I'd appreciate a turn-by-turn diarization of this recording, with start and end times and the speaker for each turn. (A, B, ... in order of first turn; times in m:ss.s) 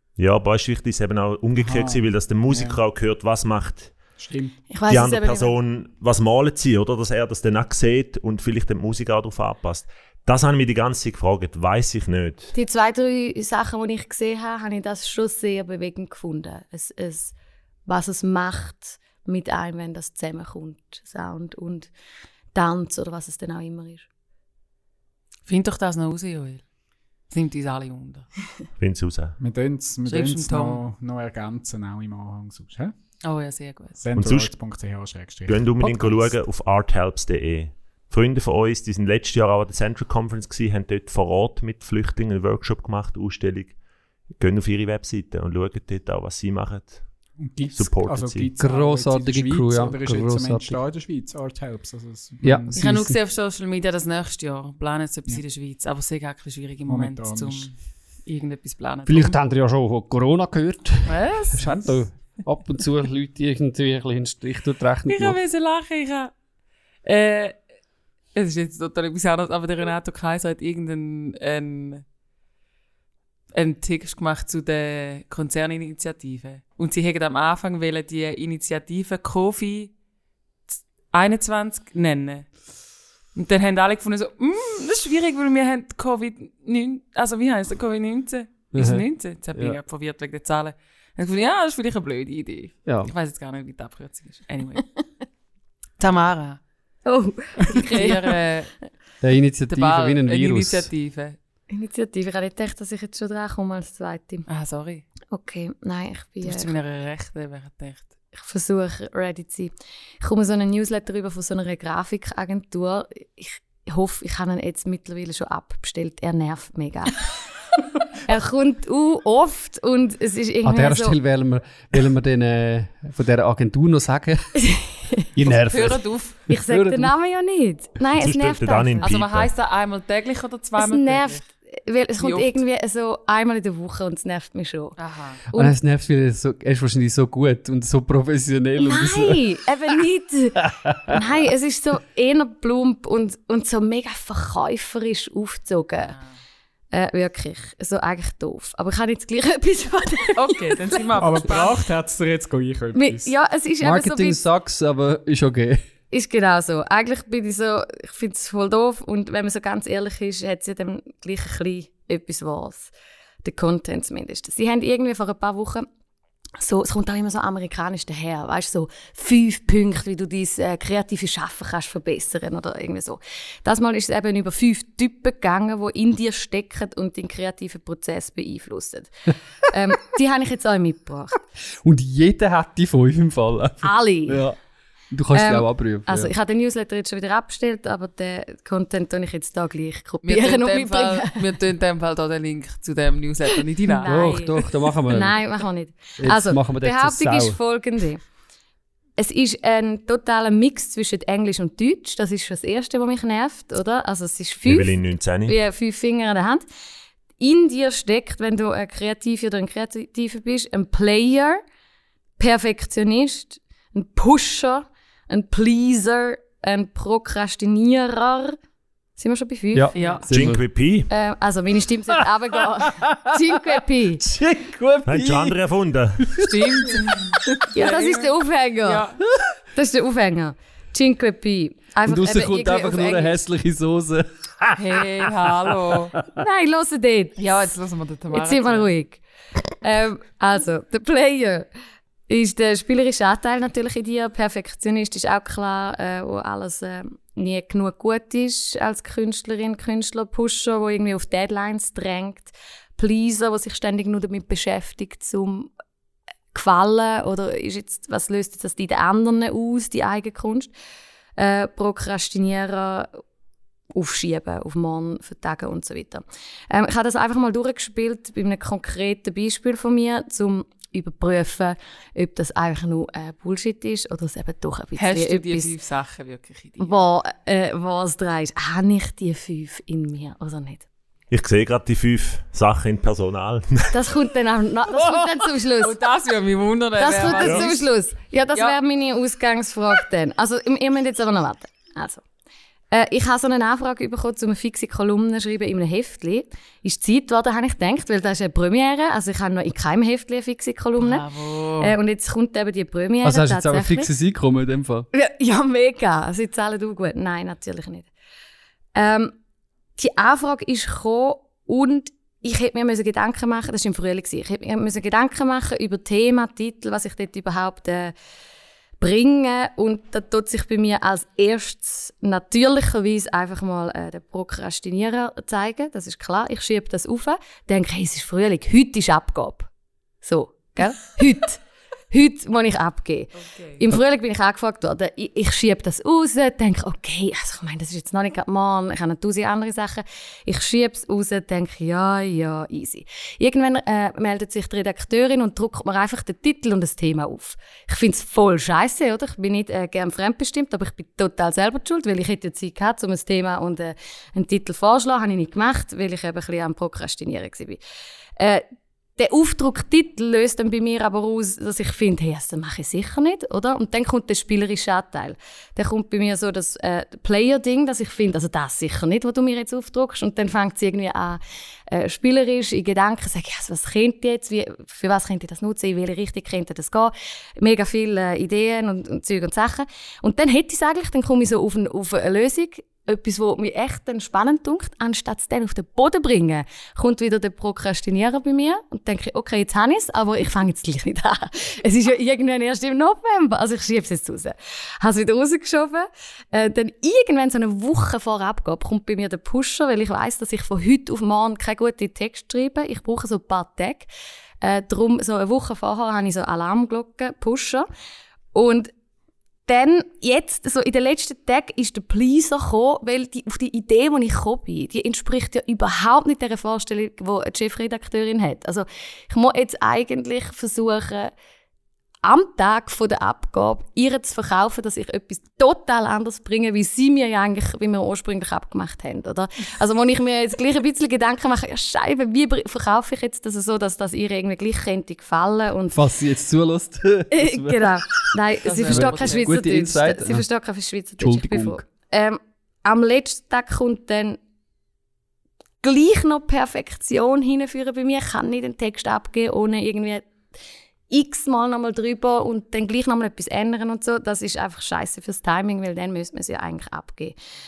0:00.2-0:04.0 A
0:01.6-0:02.8 B
0:04.2-0:04.6 B
0:04.7-0:05.5 C
0:04.9-0:12.5 A
0:12.5-0:17.3 C
0:17.8-0:21.9 C
0:22.5-0:24.0 C
0:25.4-0:26.6 D
0:27.3-0:28.3 D
0:28.8-0:29.4 A
0:29.4-0:32.9 B
0:30.0-0:30.8 D
0:33.2-0:34.0 D
0:34.0-0:35.7 B
0:34.2-0:34.5 A
0:35.5-0:43.8 A
0:35.8-0:36.3 E
0:44.3-0:48.5 A
0:47.4-0:52.8 B
0:48.6-0:50.8 E
0:52.4-0:53.2 E
0:52.8-0:59.4 D
0:56.8-0:57.7 B
0:59.1-1:05.4 E
1:01.0-1:01.8 D
1:01.6-1:02.0 B
1:05.1-1:06.3 D
1:07.0-1:07.6 D
1:08.3-1:12.0 D
1:13.5-1:19.9 D
1:21.1-1:22.6 D
1:23.3-1:34.8 D
1:28.7-1:29.8 E
1:32.8-1:33.1 E
1:36.0-1:36.6 D
1:37.0-1:38.3 C
1:37.7-1:38.7 D
1:39.2-1:40.9 E
1:39.7-1:41.4 D
1:41.7-1:44.4 C
1:44.5-1:45.0 D
1:45.3-1:46.7 C
1:46.4-1:48.1 D
1:48.3-1:57.4 C
1:58.2-2:01.2 C
2:00.6-2:04.8 E
2:04.6-2:05.2 C
2:05.3-2:07.1 E
2:05.5-2:06.4 D
2:06.5-2:09.1 C
2:08.2-2:09.5 A
2:09.0-2:11.4 D
2:10.8-2:15.0 C
2:12.2-2:12.6 D
2:15.0-2:15.4 D
2:15.5-2:20.0 E
2:18.8-2:26.2 C
2:20.6-2:21.2 E
2:26.9-2:31.4 C
2:30.4-2:31.8 D
2:31.2-2:33.3 B
2:33.0-2:34.4 C
2:33.8-2:35.8 E
2:36.1-2:42.9 C
2:43.4-2:45.8 C
2:46.6-3:01.4 C
3:01.8-3:04.6 E
3:03.8-3:04.4 C
3:05.1-3:06.3 E
3:05.3-3:11.4 C
3:10.2-3:14.1 D
3:13.8-3:18.2 C
3:14.0-3:15.4 E
3:16.2-3:17.6 E
3:19.2-3:26.6 C
3:24.6-3:25.6 A
3:27.4-3:31.6 C
3:32.4-3:38.5 C
3:39.2-3:40.2 C
3:39.7-3:40.6 E
3:39.9-3:40.2 D
3:40.3-3:41.1 A
3:41.1-3:44.2 C
3:42.7-3:45.6 E
3:45.0-3:46.3 A
3:46.2-3:46.6 E
3:46.4-3:48.3 D
3:47.7-3:49.1 C
3:48.8-3:49.2 D
3:49.7-3:53.4 C
3:52.0-3:54.8 E
3:54.7-3:56.1 D
3:56.4-3:57.5 C
3:57.4-3:58.9 D
3:58.3-3:59.2 C
3:59.8-4:01.7 C
4:02.3-4:15.7 C
4:16.5-4:20.7 C
4:21.4-4:23.2 C
4:23.9-4:35.7 C
4:35.0-4:37.0 D
4:36.8-4:40.8 C
4:41.3-4:44.1 A
4:43.9-4:46.0 C
4:45.8-4:47.8 D
4:47.0-4:52.2 C
4:47.4-4:47.7 A
4:52.9-5:04.1 C
5:01.0-5:02.0 D
5:03.2-5:05.1 E
5:05.1-5:08.1 C
5:09.0-5:09.3 C
5:10.0-5:18.1 C
5:19.0-5:29.7 C
5:30.2-5:57.8 C
5:33.4-5:33.8 D
5:58.4-5:58.6 C
5:59.2-6:44.1 C
6:44.6-6:47.9 C
6:48.5-6:48.9 C
6:49.7-7:01.3 C
7:02.2-7:16.0 C
7:15.9-7:18.0 E
7:17.3-7:24.4 C
7:18.6-7:19.8 D
7:18.8-7:20.5 E
7:21.2-7:21.8 E
7:25.8-7:30.3 C
7:31.1-7:37.3 C